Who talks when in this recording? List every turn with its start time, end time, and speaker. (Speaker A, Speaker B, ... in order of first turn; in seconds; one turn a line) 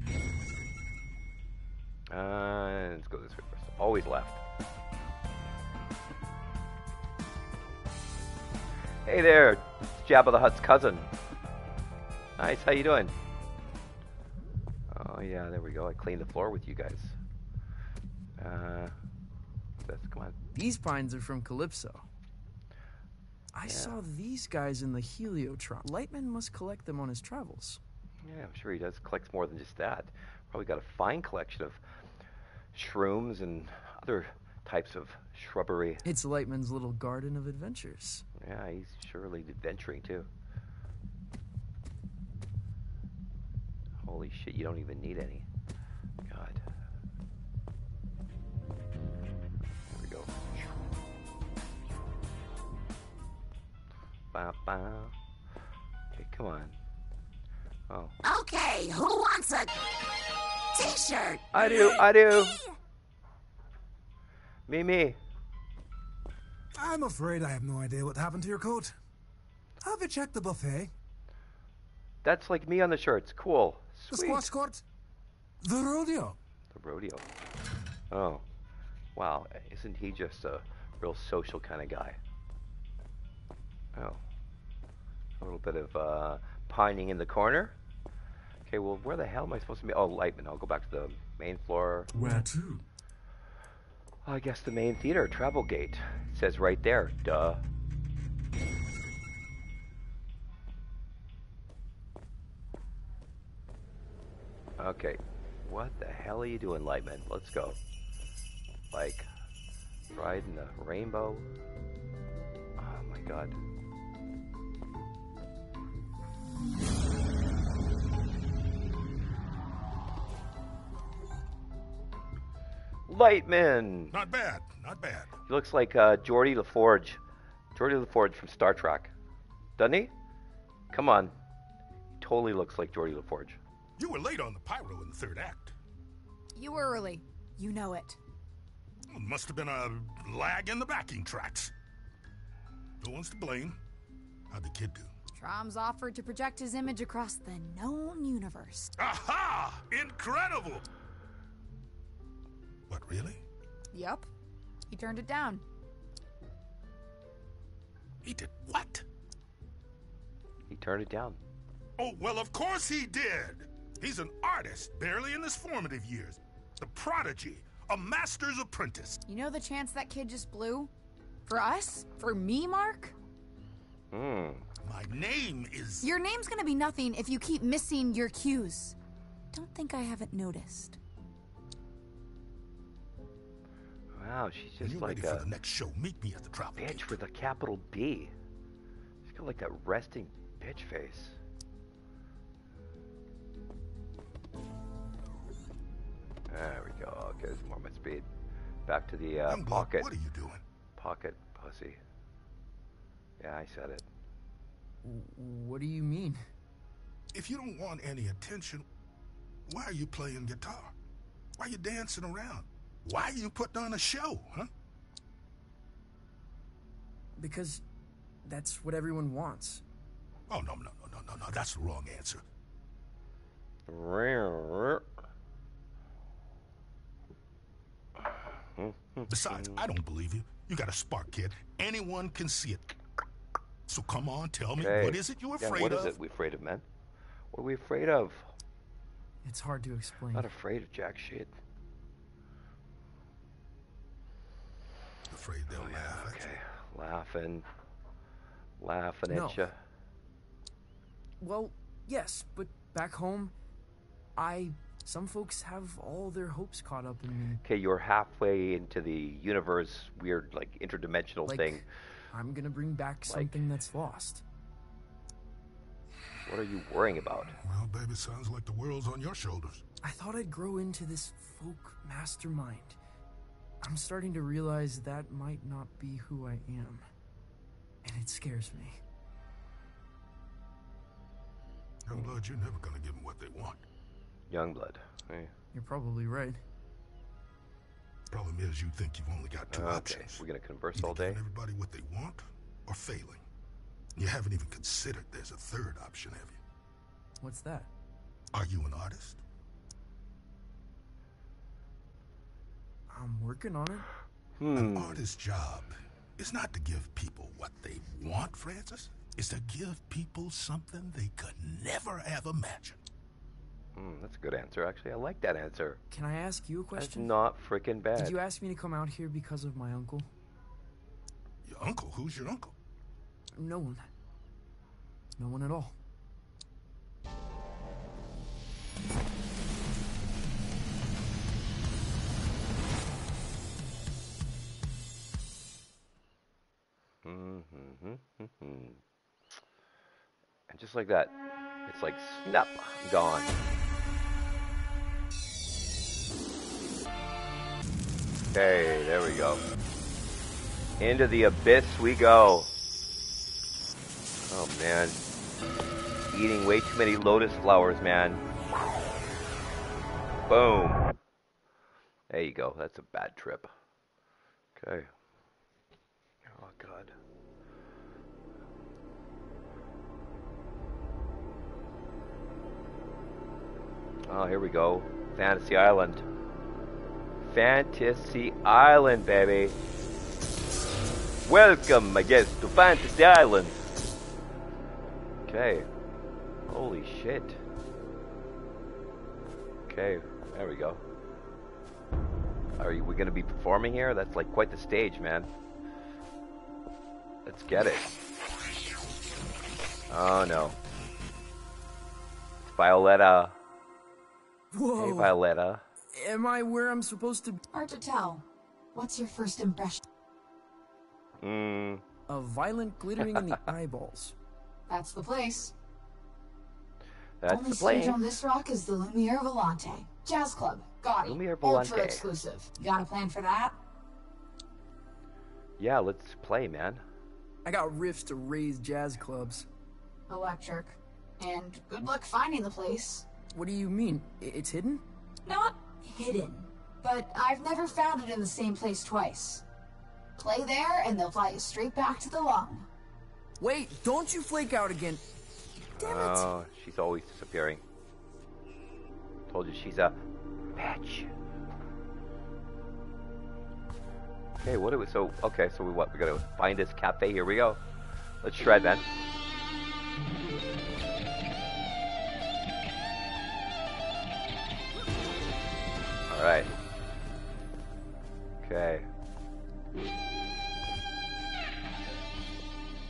Speaker A: 2.1-4.4
Speaker A: 9.1-11.1
Speaker A: 12.4-13.1
Speaker A: 14.9-17.2
Speaker A: 18.4-18.9
Speaker A: 19.8-20.4
Speaker B: 20.6-22.1
Speaker B: 23.5-27.8
Speaker A: 23.6-24.0
Speaker A: 28.2-31.8
Speaker A: 32.7-36.0
Speaker B: 36.0-38.3
Speaker A: 38.4-40.3
Speaker A: 44.0-45.5
Speaker A: 46.3-46.6
Speaker A: 49.9-50.3
Speaker A: 54.3-55.1
Speaker A: 56.1-56.8
Speaker A: 57.9-58.1
Speaker C: 58.2-59.7
Speaker C: 60.8-62.6
Speaker A: 61.5-62.6
Speaker A: 64.7-65.2
Speaker D: 66.8-69.0
Speaker D: 69.8-70.9
Speaker A: 72.2-74.5
Speaker D: 74.1-74.8
Speaker D: 75.6-76.4
Speaker A: 76.7-77.2
Speaker A: 78.1-78.4
Speaker A: 79.2-82.2
Speaker A: 84.0-84.2
Speaker A: 85.4-87.7
Speaker A: 88.7-92.1
Speaker D: 92.1-92.8
Speaker A: 94.2-97.6
Speaker A: 104.8-107.8
Speaker A: 108.9-109.3
Speaker A: 110.1-111.5
Speaker A: 112.8-113.5
Speaker A: 123.1-124.1
Speaker E: 124.1-125.3
Speaker A: 125.5-127.2
Speaker A: 127.8-129.1
Speaker A: 129.8-130.1
Speaker A: 130.9-131.3
Speaker A: 132.2-133.6
Speaker E: 134.0-135.8
Speaker F: 136.6-138.2
Speaker E: 139.1-141.7
Speaker E: 143.0-143.8
Speaker E: 144.5-145.1
Speaker F: 145.3-148.9
Speaker E: 149.0-150.8
Speaker E: 152.9-153.4
Speaker F: 153.9-154.3
Speaker F: 154.9-155.6
Speaker E: 158.2-159.1
Speaker A: 160.7-161.4
Speaker E: 162.0-169.2
Speaker F: 169.3-170.9
Speaker F: 171.5-173.2
Speaker A: 174.1-174.7
Speaker E: 174.8-176.1
Speaker F: 176.0-179.0
Speaker F: 179.5-181.0
Speaker A: 184.2-185.5
Speaker E: 184.8-187.2
Speaker A: 186.8-188.3
Speaker A: 189.2-191.4
Speaker A: 196.5-198.3
Speaker A: 198.9-200.1
Speaker E: 199.5-200.6
Speaker A: 201.0-202.0
Speaker A: 203.4-204.1
Speaker B: 205.0-206.4
Speaker E: 207.3-208.9
Speaker E: 209.7-210.9
Speaker E: 211.6-214.7
Speaker B: 217.4-217.8
Speaker B: 218.4-219.8
Speaker E: 220.5-222.4
Speaker A: 223.9-225.1
Speaker A: 228.8-229.8
Speaker E: 229.3-232.9
Speaker E: 233.9-236.2
Speaker A: 234.8-236.8
Speaker A: 237.5-238.5
Speaker B: 239.4-240.5
Speaker A: 240.3-241.5
Speaker E: 245.3-246.5
Speaker A: 245.7-247.7
Speaker A: 248.8-249.8
Speaker B: 249.3-249.7
Speaker B: 251.4-253.5
Speaker B: 254.4-257.6
Speaker A: 257.6-261.8
Speaker B: 261.5-264.4
Speaker A: 263.3-263.6
Speaker A: 266.5-267.6
Speaker E: 267.6-269.8
Speaker B: 270.0-273.0
Speaker B: 273.8-277.1
Speaker B: 278.0-279.0
Speaker E: 282.1-283.8
Speaker A: 284.5-285.5
Speaker B: 285.7-286.6
Speaker E: 288.3-290.4
Speaker A: 289.7-291.4
Speaker E: 290.9-293.5
Speaker E: 294.2-296.6
Speaker B: 297.4-297.9
Speaker E: 298.5-299.4
Speaker B: 303.1-304.1
Speaker A: 304.6-305.2
Speaker E: 304.7-313.0
Speaker A: 314.0-316.0
Speaker B: 316.1-317.3
Speaker A: 317.0-318.4
Speaker B: 318.2-320.3
Speaker E: 321.6-322.7
Speaker B: 323.6-324.1
Speaker B: 325.4-325.9
Speaker A: 337.2-339.0
Speaker A: 340.7-341.4
Speaker A: 341.9-343.6
Speaker A: 348.5-349.6
Speaker A: 351.0-352.7
Speaker A: 354.5-355.2
Speaker A: 356.3-358.4
Speaker A: 360.5-361.1
Speaker A: 362.3-363.7
Speaker A: 364.8-365.1
Speaker A: 366.4-367.1
Speaker A: 374.3-376.2
Speaker A: 377.4-379.8
Speaker A: 381.4-383.8
Speaker A: 385.5-385.9
Speaker A: 386.7-387.6
Speaker A: 389.9-391.0
Speaker A: 392.8-395.5
Speaker A: 397.5-398.1
Speaker A: 400.1-400.8
Speaker A: 402.6-403.6
Speaker B: 404.7-405.4
Speaker A: 405.0-405.9
Speaker B: 406.1-407.6
Speaker F: 407.7-410.0
Speaker A: 411.4-412.0
Speaker B: 412.3-414.4
Speaker F: 414.9-415.7
Speaker A: 417.4-418.3
Speaker F: 417.5-423.8
Speaker A: 421.2-422.3
Speaker A: 425.8-427.0
Speaker B: 427.6-429.7
Speaker F: 430.3-433.3
Speaker B: 433.5-435.0
Speaker F: 435.5-439.6
Speaker F: 440.4-442.9
Speaker B: 443.6-445.2
Speaker A: 446.0-447.8
Speaker B: 446.0-446.5
Speaker A: 449.5-450.2
Speaker A: 450.8-451.3
Speaker A: 454.6-457.8
Speaker A: 458.4-459.1
Speaker A: 466.3-466.7
Speaker A: 468.6-469.1